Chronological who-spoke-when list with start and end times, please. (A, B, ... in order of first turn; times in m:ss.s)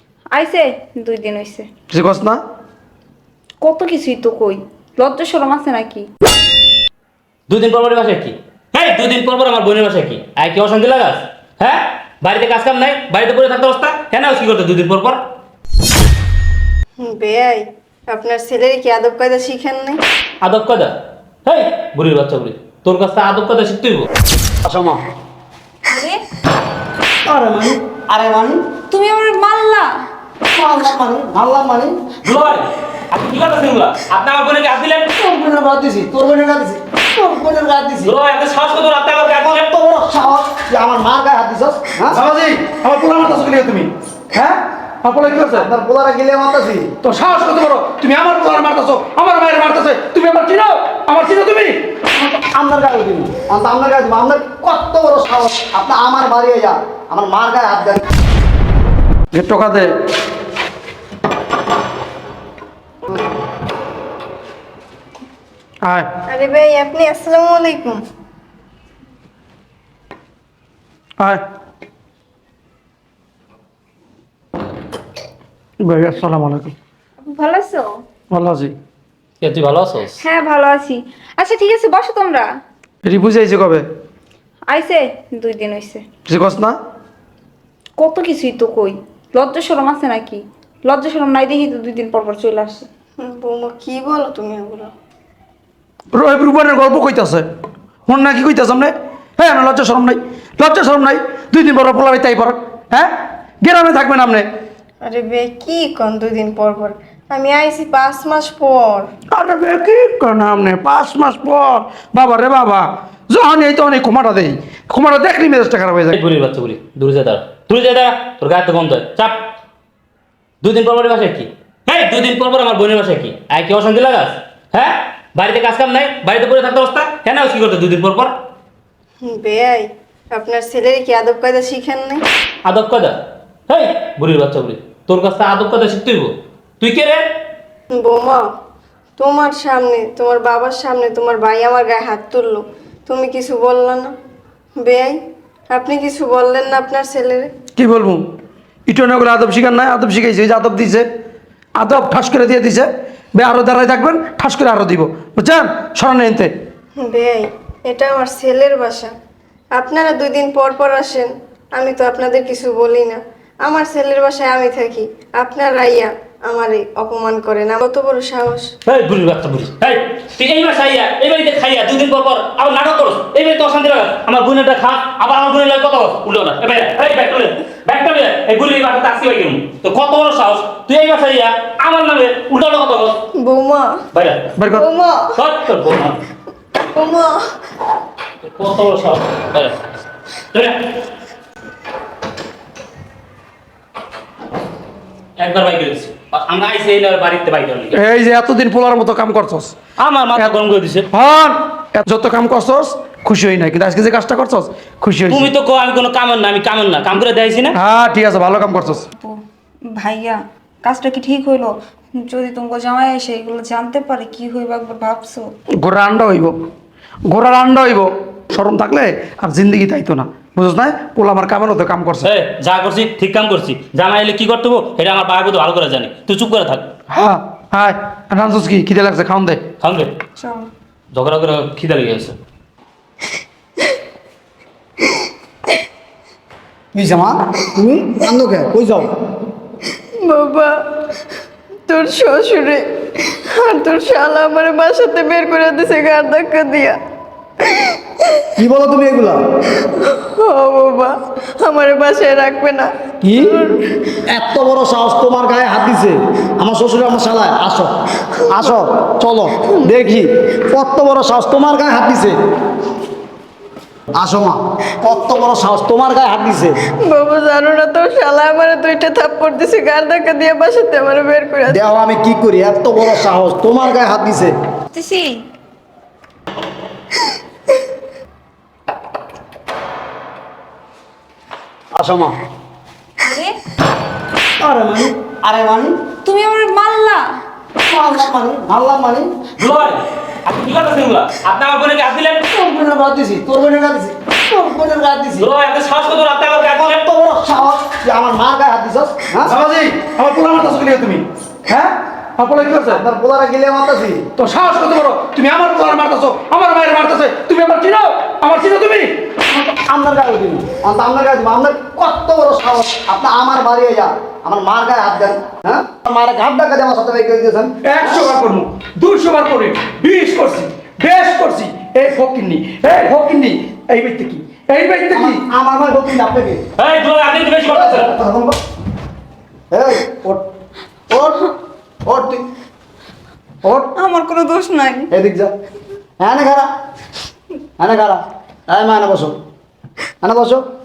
0:00.3-0:01.6 A
0:01.9-0:02.4 B
0:03.6-0:06.1 A
0:07.5-0:15.2 C
0:17.0-0:20.0 D
0:20.4-0:20.9 C
0:21.4-0:24.1 C
0:24.6-0:25.0 E
0:25.9-0:26.2 A
0:27.2-0:28.6 E
0:28.9-0:29.9 A
0:30.5-0:31.9 E
0:32.2-0:35.1 C
0:35.1-0:38.1 E
0:38.0-0:39.7 C
0:39.4-0:42.2 E
0:42.1-0:45.7 B
0:45.3-0:46.9 E
0:47.0-0:51.8 B
0:52.1-0:58.0 E
0:59.3-0:59.9 B
1:06.3-1:08.0 D
1:15.8-1:16.7 B
1:17.2-1:18.0 A
1:18.3-1:18.7 B
1:19.4-1:20.2 C
1:20.2-1:22.5 A
1:23.0-1:23.8 B
1:24.7-1:26.0 A
1:26.3-1:26.8 B
1:28.0-1:32.9 A
1:33.2-1:34.9 D
1:36.1-1:37.4 B
1:38.1-1:44.5 B
1:45.0-1:49.1 D
1:49.3-1:56.2 B
1:56.1-1:59.4 C
2:00.6-2:08.3 C
2:09.2-2:12.2 D
2:12.6-2:13.2 C
2:13.7-2:17.2 C
2:17.9-2:18.4 D
2:19.2-2:24.1 D
2:24.8-2:25.2 D
2:25.7-2:27.5 D
2:27.8-2:28.2 B
2:28.9-2:31.0 B
2:31.7-2:36.5 B
2:37.0-2:39.1 D
2:39.7-2:48.7 D
2:48.8-3:03.2 C
3:03.4-3:04.0 D
3:04.1-3:04.6 C
3:04.6-3:04.9 B
3:04.7-3:05.3 D
3:05.4-3:06.2 C
3:06.8-3:07.4 D
3:08.4-3:09.8 C
3:10.5-3:10.8 C
3:15.4-3:18.0 C
3:17.9-3:19.7 B
3:20.0-3:21.1 C
3:21.1-3:25.5 B
3:25.3-3:27.8 C
3:27.7-3:29.0 B
3:29.9-3:35.5 A
3:35.7-3:36.5 B
3:37.3-3:42.3 B
3:42.2-3:46.9 C
3:47.1-3:49.6 B
3:49.8-3:50.1 C
3:50.4-3:50.7 A
3:51.1-3:52.4 C
3:56.9-3:59.1 E
4:00.2-4:00.8 D
4:01.9-4:07.0 D
4:07.6-4:08.4 D
4:08.6-4:09.4 E
4:09.8-4:13.9 D
4:13.2-4:13.6 E
4:14.2-4:17.9 E
4:18.5-4:22.4 E
4:24.1-4:26.8 E
4:27.0-4:31.8 D
4:31.7-4:34.5 E
4:34.9-4:35.4 A
4:41.9-4:42.3 E
4:43.2-4:43.5 A
4:44.6-4:45.9 E
4:46.2-4:47.3 A
4:47.8-4:49.3 E
4:49.6-4:52.4 C
4:52.4-4:55.5 E
4:55.4-4:57.0 C
4:56.7-4:59.6 E
4:59.4-5:03.0 B
5:02.7-5:04.2 E
5:04.4-5:09.1 B
5:09.5-5:18.3 E
5:17.8-5:25.4 B
5:25.1-5:26.6 E
5:26.8-5:28.1 C
5:27.7-5:28.6 E
5:29.7-5:30.4 E
5:31.1-5:31.5 E
5:32.0-5:32.4 E
5:33.6-5:33.9 E
5:33.9-5:35.1 A
5:35.1-5:35.5 E
5:36.2-5:36.7 E
5:37.8-5:39.4 E
5:40.2-5:40.6 E